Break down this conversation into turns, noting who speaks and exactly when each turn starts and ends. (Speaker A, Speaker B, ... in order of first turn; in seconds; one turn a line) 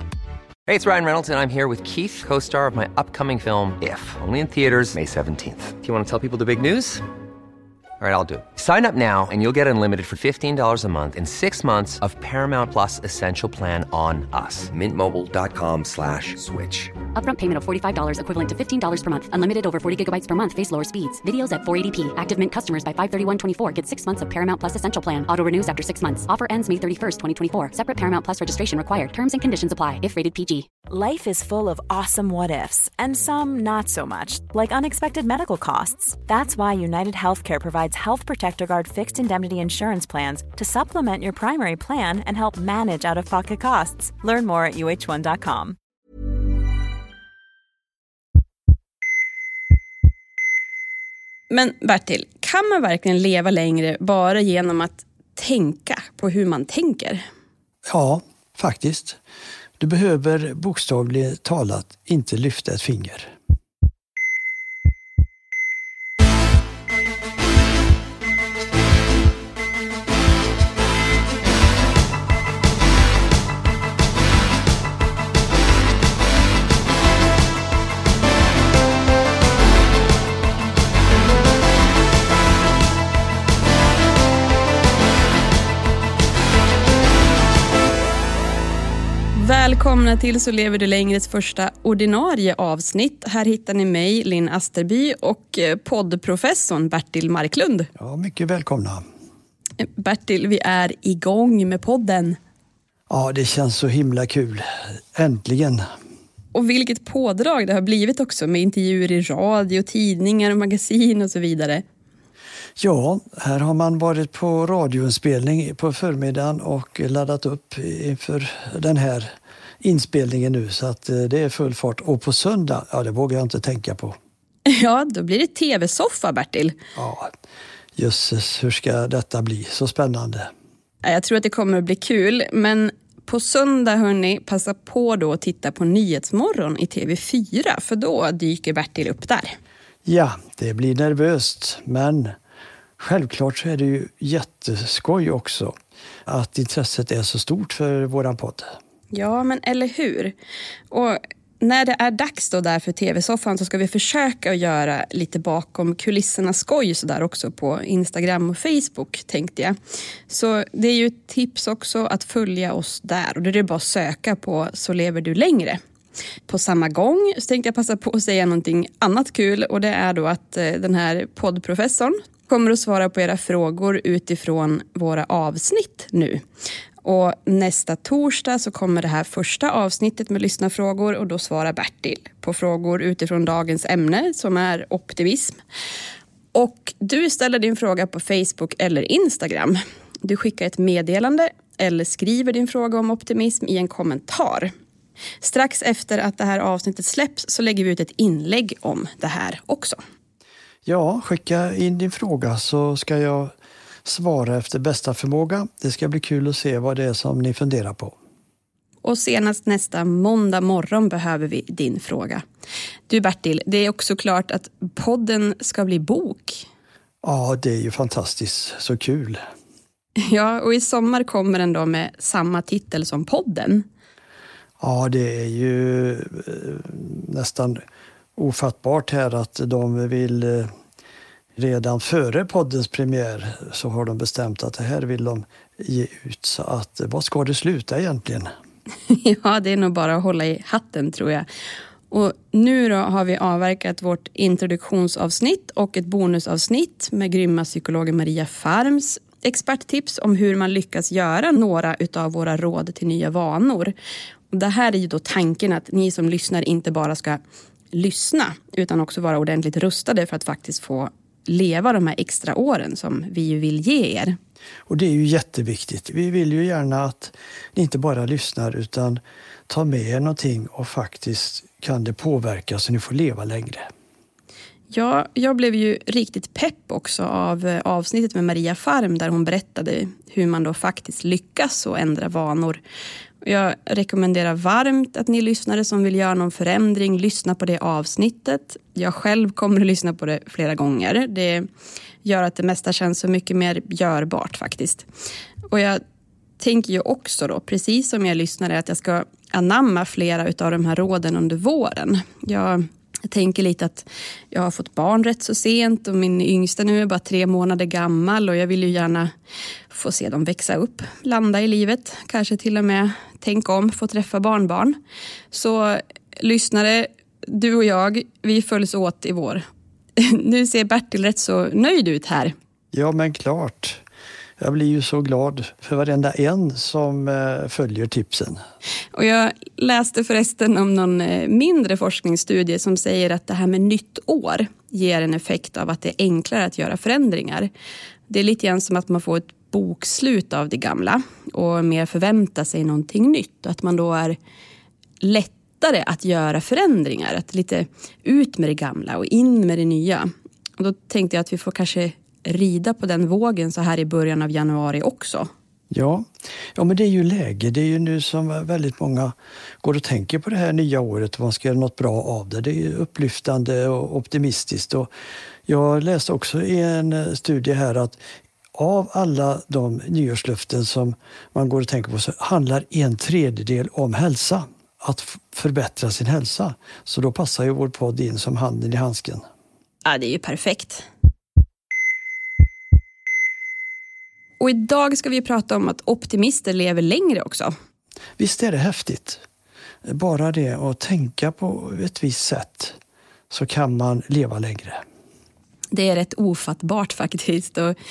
Speaker A: 0.7-7.0
Speaker A: 8.0-16.9
Speaker B: 17.1-30.7
Speaker C: 30.9-45.8
Speaker D: 51.5-57.3
Speaker E: 57.9-59.2
Speaker E: 59.8-63.3
Speaker D: 89.4-97.9
Speaker E: 98.0-99.0
Speaker D: 99.8-102.4
Speaker E: 103.1-105.8
Speaker D: 106.5-111.8
Speaker E: 112.8-124.2
Speaker D: 124.7-126.8
Speaker E: 127.0-127.3
Speaker E: 128.0-130.5
Speaker D: 131.0-139.6
Speaker E: 140.1-142.4
Speaker E: 143.0-145.7
Speaker E: 146.3-148.8
Speaker D: 149.1-150.3
Speaker D: 150.9-159.8
Speaker D: 160.3-165.8
Speaker D: 166.5-176.4
Speaker D: 177.0-185.6
Speaker D: 186.5-194.7
Speaker D: 195.4-200.0
Speaker E: 200.9-203.5
Speaker E: 204.1-208.2
Speaker D: 209.0-212.4
Speaker D: 213.1-216.7
Speaker E: 217.2-219.4
Speaker D: 220.2-223.8
Speaker E: 224.8-227.8
Speaker E: 228.4-230.7
Speaker E: 231.6-238.5
Speaker D: 239.1-241.5
Speaker D: 242.1-253.9
Speaker D: 254.5-257.4
Speaker D: 257.9-264.4
Speaker E: 264.9-273.9
Speaker D: 274.9-282.8
Speaker D: 283.4-291.7
Speaker D: 292.2-295.1
Speaker D: 295.7-296.0
Speaker D: 296.6-309.3
Speaker D: 309.9-315.0
Speaker D: 315.5-319.6
Speaker D: 320.2-322.5
Speaker E: 322.9-324.0
Speaker E: 324.6-328.6
Speaker D: 329.1-337.7
Speaker D: 338.3-344.4
Speaker D: 345.2-355.5
Speaker E: 355.9-365.1
Speaker E: 365.7-368.2
Speaker E: 368.8-379.5
Speaker D: 380.1-381.1
Speaker D: 384.6-387.7
Speaker E: 388.4-389.4
Speaker E: 390.1-393.0
Speaker E: 393.5-395.0
Speaker D: 395.9-397.9